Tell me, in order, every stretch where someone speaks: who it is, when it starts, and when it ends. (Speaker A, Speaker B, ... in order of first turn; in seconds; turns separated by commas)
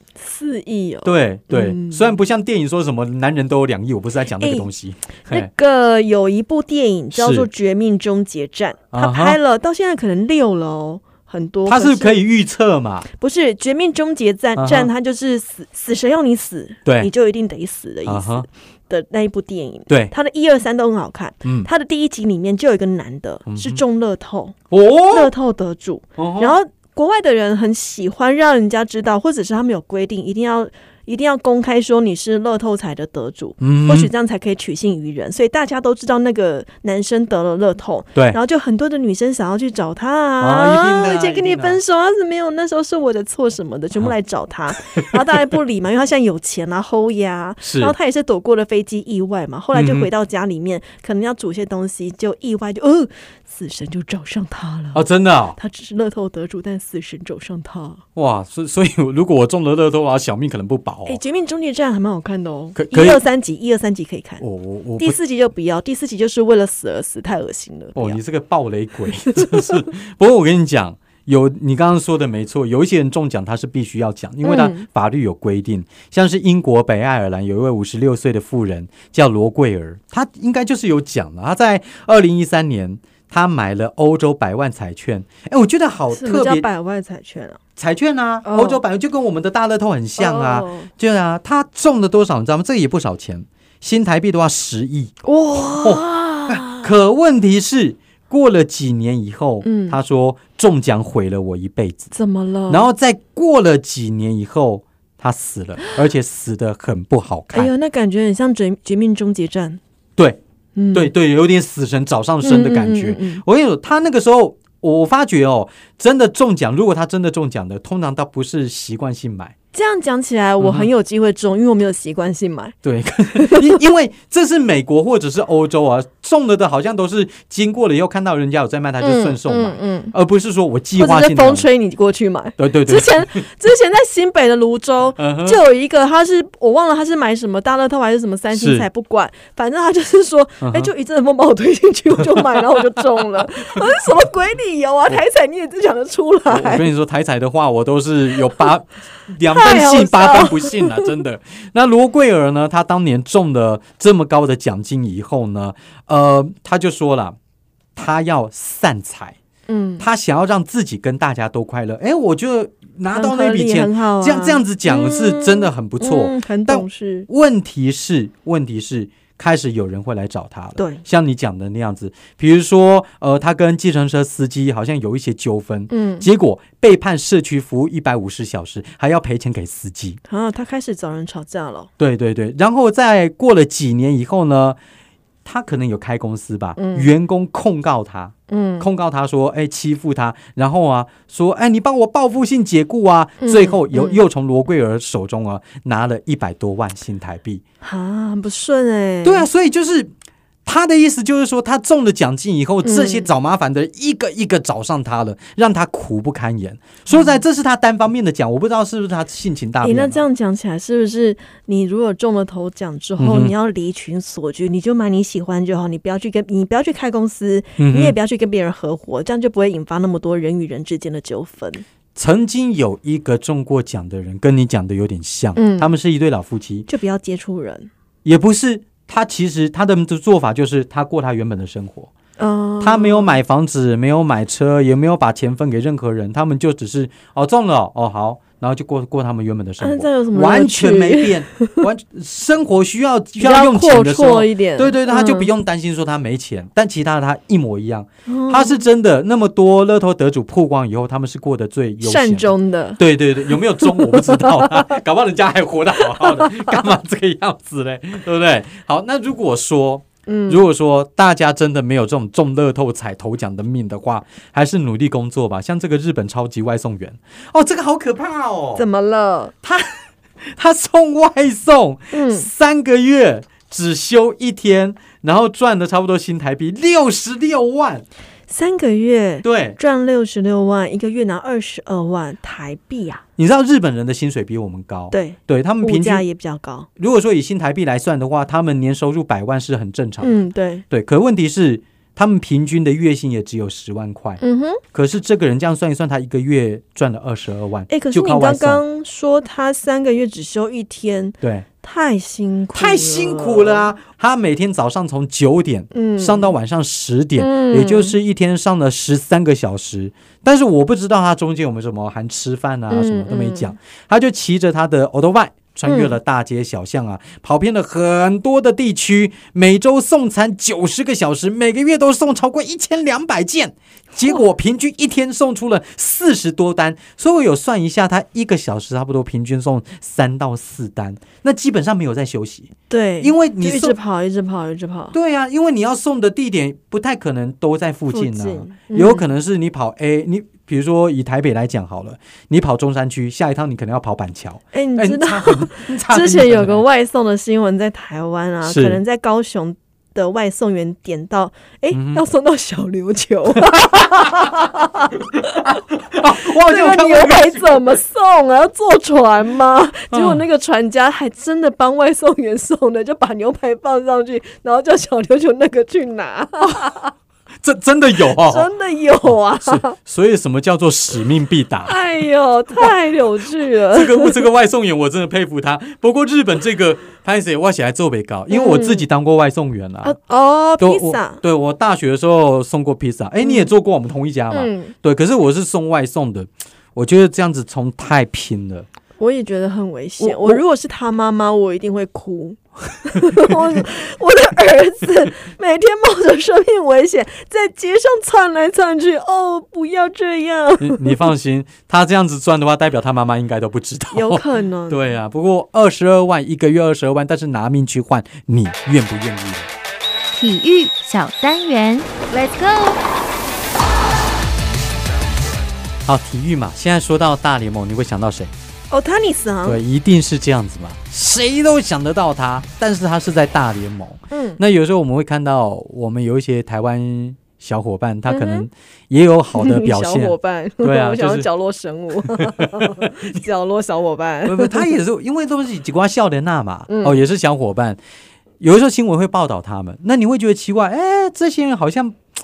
Speaker A: 0.2-2.1, Speaker B: 1.0-5.5, Speaker A: 4.4-4.7, Speaker A: 5.3-12.2, Speaker B: 7.1-7.5, Speaker B: 8.9-9.4, Speaker B: 11.7-13.1, Speaker A: 13.1-24.6, Speaker B: 14.6-14.9, Speaker B: 16.9-17.1, Speaker B: 18.1-18.5, Speaker B: 21.4-21.7, Speaker B: 23.5-23.8, Speaker B: 24.7-25.3, Speaker A: 25.1-55.0, Speaker B: 26.2-26.6, Speaker B: 33.6-34.1, Speaker B: 40.4-41.8, Speaker B: 47.6-48.0, Speaker B: 49.7-50.1, Speaker B: 54.9-55.6, Speaker A: 55.6-58.0, Speaker B: 58.1-61.2, Speaker A: 61.1-64.4, Speaker B: 62.8-63.2, Speaker B: 64.4-65.2, Speaker A: 65.0-68.2, Speaker B: 68.0-86.7, Speaker A: 69.3-69.6, Speaker A: 74.4-74.8, Speaker A: 86.1-87.6, Speaker B: 87.8-95.1, Speaker A: 88.5-88.8, Speaker A: 90.2-90.9, Speaker A: 95.2-96.9, Speaker B: 95.7-102.1, Speaker A: 99.6-100.0, Speaker A: 102.1-102.9, Speaker B: 102.7-107.7, Speaker A: 107.5-109.8, Speaker A: 110.8-111.1, Speaker B: 110.9-119.5, Speaker A: 112.4-113.4, Speaker A: 119.7-122.8, Speaker B: 120.6-120.9, Speaker B: 122.8-131.7, Speaker A: 123.3-123.8, Speaker A: 129.0-130.1, Speaker A: 131.0-146.9, Speaker B: 132.6-133.4, Speaker B: 135.2-135.6, Speaker B: 138.5-138.9, Speaker B: 140.6-140.9, Speaker B: 146.5-157.4, Speaker A: 149.5-151.1, Speaker B: 158.0-159.4, Speaker A: 159.7-160.1, Speaker B: 160.0-180.2, Speaker A: 163.1-167.3, Speaker A: 170.8-171.0, Speaker A: 175.9-176.3, Speaker A: 180.3-181.9, Speaker B: 182.0-184.8, Speaker B: 185.4-197.6, Speaker A: 186.8-187.1, Speaker A: 188.5-188.9, Speaker A: 193.4-194.2, Speaker A: 197.8-199.5, Speaker B: 199.2-200.1, Speaker B: 200.7-210.2, Speaker A: 202.8-203.3, Speaker A: 207.1-207.4, Speaker A: 209.8-221.8, Speaker B: 213.2-213.5, Speaker B: 217.8-218.2, Speaker B: 222.2-226.9, Speaker A: 225.6-225.9, Speaker A: 226.9-227.9, Speaker B: 228.2-232.1, Speaker A: 232.4-233.4, Speaker B: 232.8-268.9, Speaker A: 239.8-241.8, Speaker A: 243.4-245.5, Speaker A: 248.3-248.8, Speaker A: 252.0-253.0, Speaker A: 253.8-254.9, Speaker A: 256.2-256.8, Speaker A: 260.3-260.6, Speaker A: 268.8-269.6, Speaker B: 269.6-270.0, Speaker B: 270.6-278.1, Speaker A: 272.1-272.5, Speaker A: 278.5-283.2, Speaker B: 279.4-279.8, Speaker B: 283.4-286.2, Speaker A: 285.1-286.9, Speaker B: 287.0-290.4, Speaker A: 290.2-290.9, Speaker B: 290.9-294.4, Speaker A: 294.4-294.8, Speaker B: 294.9-298.8, Speaker A: 297.9-303.9, Speaker B: 301.4-301.7, Speaker B: 302.7-334.0, Speaker A: 305.9-306.5, Speaker A: 307.4-308.2, Speaker A: 312.9-313.7, Speaker A: 315.9-316.2, Speaker A: 332.9-335.1, Speaker B: 335.1-346.8, Speaker A: 338.1-339.3, Speaker A: 344.7-355.8, Speaker B: 348.6-349.0, Speaker B: 351.9-352.2, Speaker B: 353.6-354.5, Speaker B: 355.4-357.8, Speaker A: 356.4-367.1, Speaker B: 360.1-360.4, Speaker B: 367.6-368.7, Speaker A: 368.2-369.9, Speaker B: 369.6-372.0, Speaker A: 371.9-374.4, Speaker B: 373.9-380.2, Speaker A: 378.5-379.1, Speaker A: 380.0-381.4, Speaker B: 380.8-388.9, Speaker A: 383.4-383.7, Speaker A: 384.5-384.9, Speaker A: 389.2-401.3, Speaker B: 390.2-390.6, Speaker B: 400.8-409.7, Speaker A: 404.1-405.1, Speaker C: 410.3-413.0, Speaker B: 416.1-418.5, Speaker A: 418.9-419.8, Speaker B: 419.6-431.5, Speaker A: 424.3-424.6, Speaker A: 428.3-428.7, Speaker A: 429.6-434.9, Speaker B: 432.3-433.2, Speaker B: 434.4-438.0, Speaker A: 436.9-437.2, Speaker B: 438.6-442.2